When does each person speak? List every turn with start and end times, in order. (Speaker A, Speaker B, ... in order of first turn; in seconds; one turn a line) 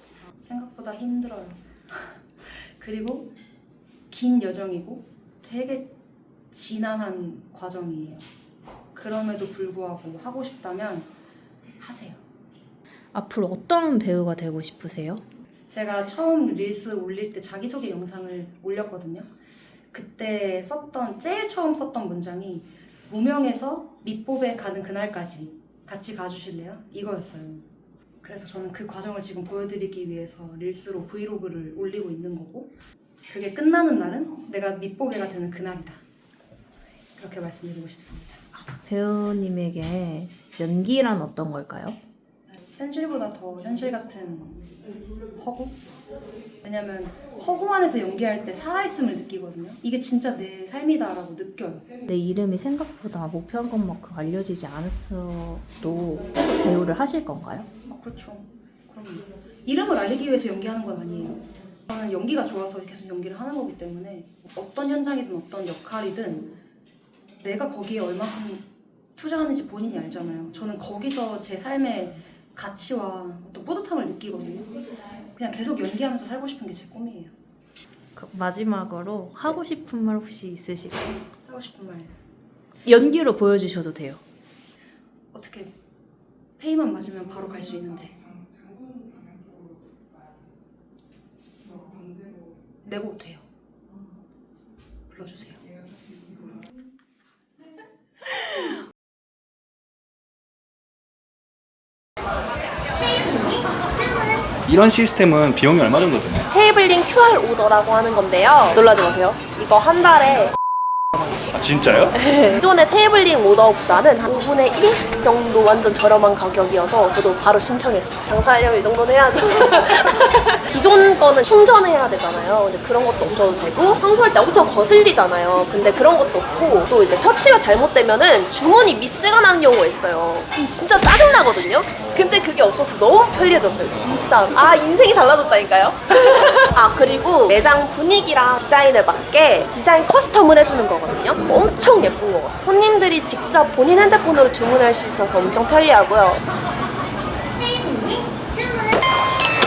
Speaker A: 0.4-3.3
Speaker A: 4.1-6.0
Speaker A: 6.5-8.2
Speaker A: 8.9-11.1
Speaker A: 11.8-12.2
Speaker B: 13.1-15.2
Speaker A: 15.7-19.3
Speaker A: 19.9-27.6
Speaker A: 28.2-32.7
Speaker A: 33.3-36.0
Speaker A: 37.1-38.4
Speaker B: 38.8-42.0
Speaker A: 42.5-44.8
Speaker A: 45.4-45.8
Speaker A: 46.6-51.9
Speaker B: 52.1-57.7
Speaker A: 57.9-66.5
Speaker A: 67.4-77.3
Speaker B: 78.2-81.2
Speaker A: 81.4-82.2
Speaker B: 82.8-84.2
Speaker A: 85.3-85.7
Speaker A: 86.6-88.2
Speaker A: 92.8-93.4
Speaker A: 95.1-95.6
Speaker C: 104.7-106.5
Speaker D: 106.5-110.5
Speaker C: 111.5-112.1
Speaker D: 112.1-146.4